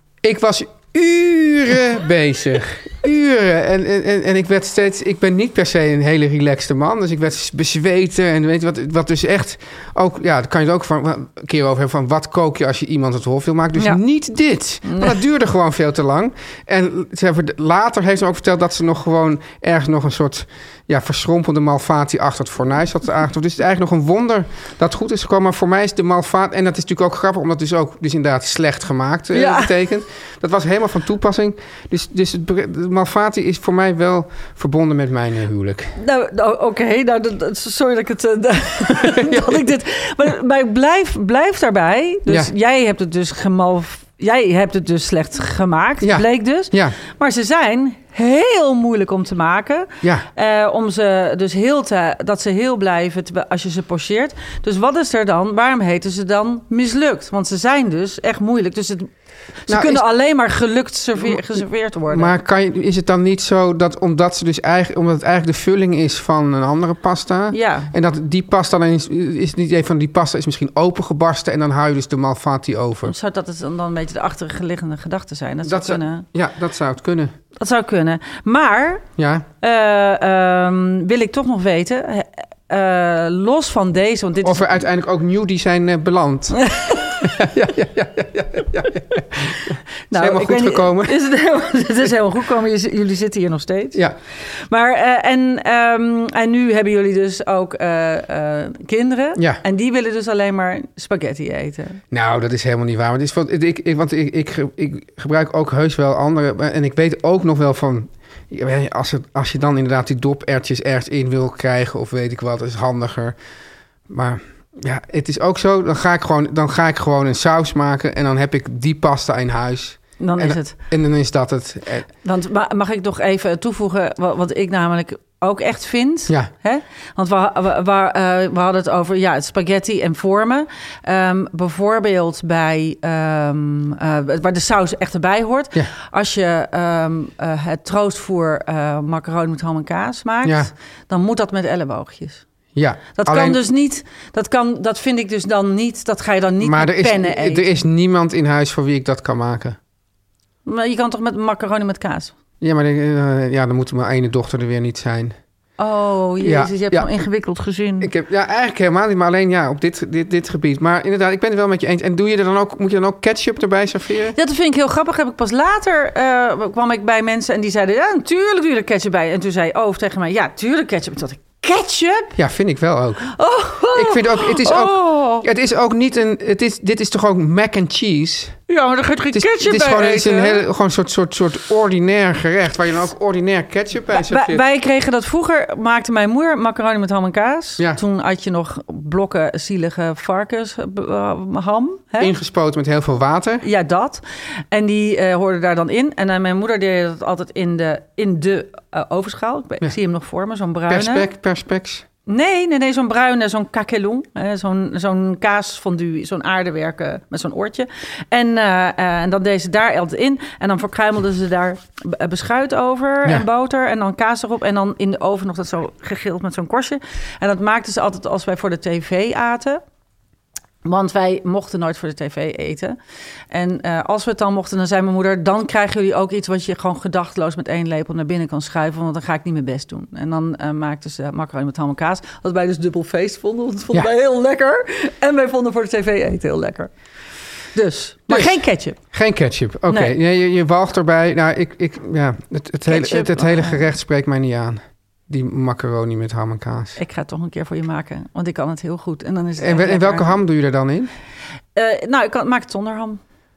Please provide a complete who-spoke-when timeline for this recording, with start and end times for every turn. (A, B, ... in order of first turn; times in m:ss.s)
0:00.2-0:36.0 A
0:14.8-0:15.2 B
0:29.3-0:29.7 B
0:36.0-0:59.1 B
0:39.0-0:39.6 A
0:46.0-0:47.0 A
0:59.7-1:02.3 B
0:59.7-1:00.0 A
1:01.2-1:13.2 A
1:07.5-1:07.9 B
1:13.0-1:16.2 B
1:15.6-1:17.3 A
1:17.6-1:19.1 B
1:19.2-1:19.5 A
1:19.6-1:24.8 B
1:24.4-1:26.6 A
1:26.6-1:27.3 B
1:27.2-1:31.2 A
1:30.1-1:34.0 B
1:34.7-1:42.0 B
1:39.4-1:39.6 A
1:42.1-1:53.4 A
1:54.1-2:02.1 A
2:00.2-2:00.8 B
2:02.2-2:22.4 B
2:20.4-2:20.7 A
2:22.8-2:23.6 A
2:23.2-2:27.8 B
2:26.6-2:29.8 A
2:30.7-2:32.4 B
2:32.6-2:35.4 A
2:35.8-2:38.1 B
2:36.4-2:37.1 A
2:38.0-2:44.4 A
2:44.4-2:52.4 B
2:52.4-2:53.3 A
2:53.3-2:55.5 B
2:53.9-2:58.6 A
2:58.7-3:00.6 B
2:59.3-3:04.6 A
3:04.1-3:12.3 B
3:12.2-3:13.7 A
3:13.6-3:21.3 B
3:20.9-3:22.0 A
3:22.3-3:39.8 B
3:40.8-3:43.0 B
3:43.5-3:56.9 B
3:57.8-3:59.0 B
3:58.3-4:07.0 A
3:59.9-4:00.2 B
4:02.9-4:03.9 B
4:07.0-4:10.4 B
4:09.6-4:11.1 A
4:11.8-4:13.2 B